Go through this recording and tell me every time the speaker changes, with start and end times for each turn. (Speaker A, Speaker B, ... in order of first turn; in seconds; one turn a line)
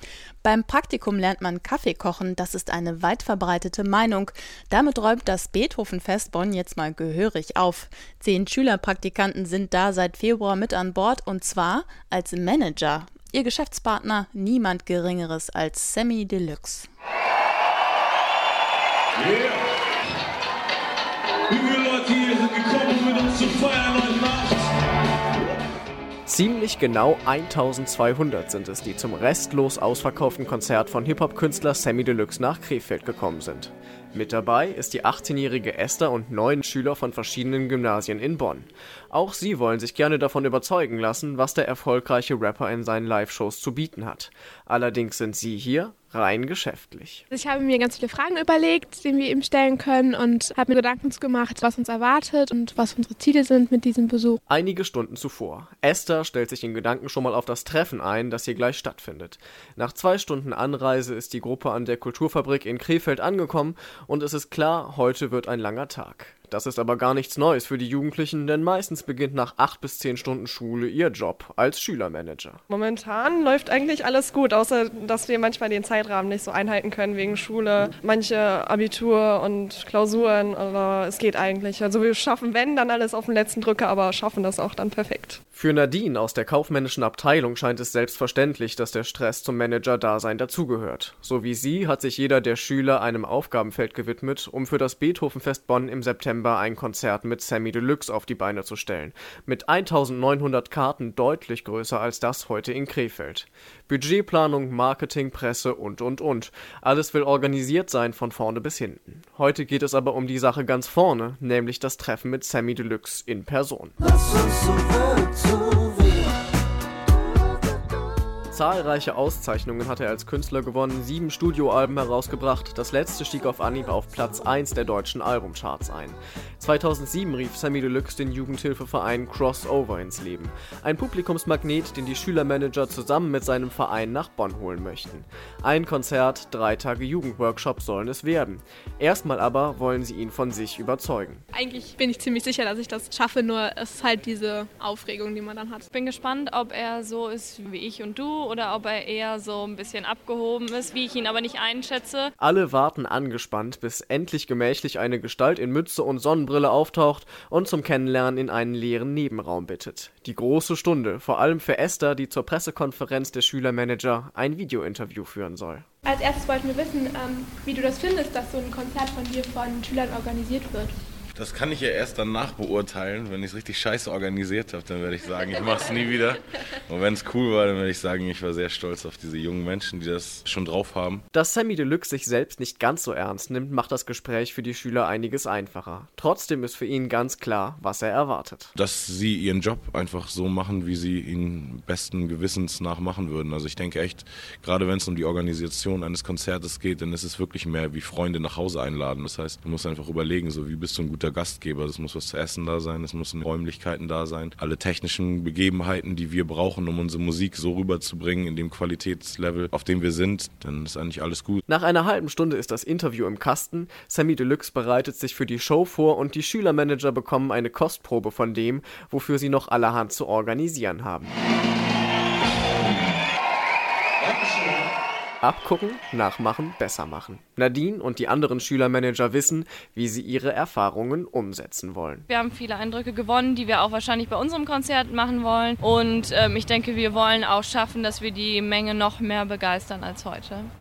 Speaker A: 0.4-16.9
Speaker B: 19.2-19.6
Speaker B: 21.5-24.6
Speaker C: 26.3-47.2
Speaker D: 47.3-54.4
Speaker C: 54.5-72.6
Speaker E: 72.7-85.4
Speaker C: 85.5-114.0
Speaker C: 118.5-141.4
Speaker D: 141.5-145.8
Speaker F: 145.9-152.3
Speaker C: 152.4-165.9
Speaker D: 166.1-170.9
Speaker B: 171.3-181.2
Speaker C: 181.3-188.7
Speaker B: 188.8-211.6
Speaker C: 211.7-221.4
Speaker C: 225.4-232.2
Speaker F: 232.3-240.7